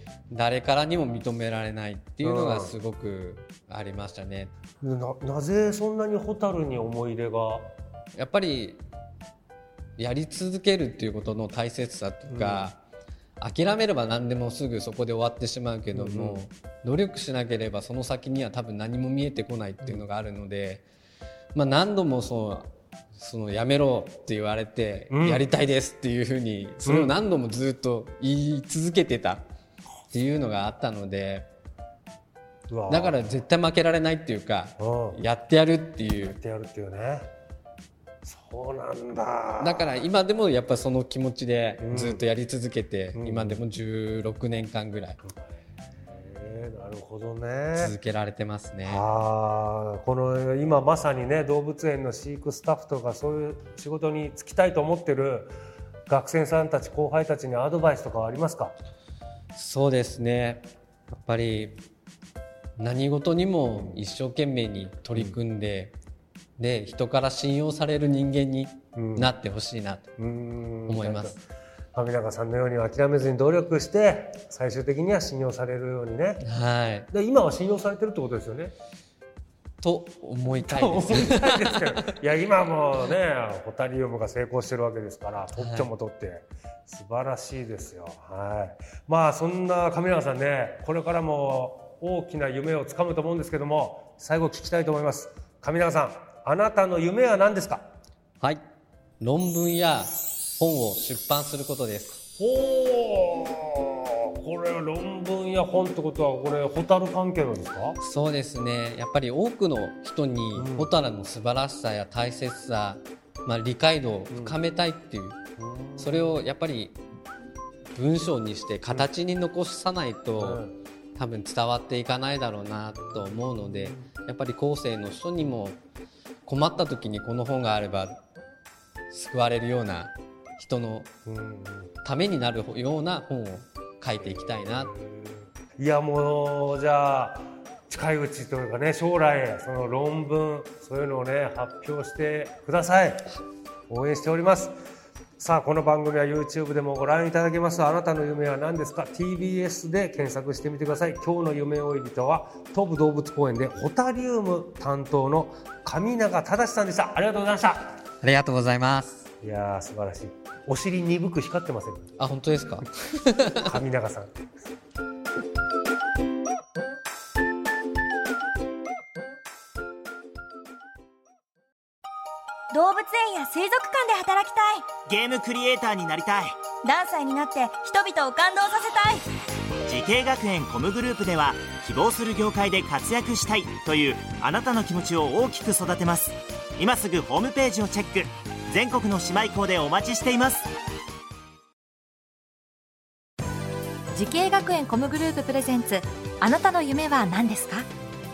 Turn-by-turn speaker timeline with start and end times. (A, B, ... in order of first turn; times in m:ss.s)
0:00.3-0:04.5 A
0:02.2-0:02.8 B
0:04.8-0:07.7 B
0:08.1-0:08.8 A
0:10.0-0:12.8 A
0:12.3-0:12.7 B
0:13.4-0:20.8 A
0:15.9-0:16.4 B
0:21.5-0:29.4 A
0:25.1-0:25.5 B
0:26.8-0:27.1 B
0:30.1-0:31.5 A
0:32.7-0:33.2 B
0:32.9-0:36.4 A
0:34.8-0:35.2 B
0:36.2-0:37.3 B
0:38.2-0:40.0 B
0:39.6-0:45.2 A
0:41.8-0:42.2 B
0:43.1-0:43.6 B
0:45.2-0:47.9 B
0:47.7-0:49.0 A
0:48.8-0:55.5 B
0:56.1-0:58.7 B
0:59.5-1:01.8 A
1:02.8-1:05.9 A
1:06.6-1:10.1 A
1:09.0-1:09.3 B
1:10.2-1:11.4 B
1:10.9-1:11.3 A
1:11.9-1:16.4 B
1:16.4-1:17.1 A
1:17.1-1:18.7 B
1:19.8-1:21.8 A
1:20.5-1:37.8 B
1:25.6-1:25.9 A
1:39.2-1:42.2 A
1:42.4-1:48.0 B
1:48.0-1:55.4 A
1:50.5-1:50.9 B
1:54.3-1:54.6 B
1:55.6-1:56.4 B
1:56.0-1:57.0 A
1:57.9-2:00.6 A
2:00.4-2:00.7 B
2:01.1-2:05.8 A
2:03.3-2:04.0 B
2:06.4-2:08.2 A
2:09.1-2:11.1 A
2:11.2-2:11.9 B
2:12.0-2:14.9 A
2:14.2-2:23.3 B
2:23.9-2:24.7 B
2:25.4-2:38.0 B
2:38.2-2:39.2 A
2:39.4-2:42.2 B
2:42.2-2:43.7 A
2:43.6-2:44.4 B
2:52.7-2:54.9 C
2:55.0-2:56.6 D
2:56.8-2:59.2 C
2:59.8-3:10.7 D
3:14.1-3:17.9 E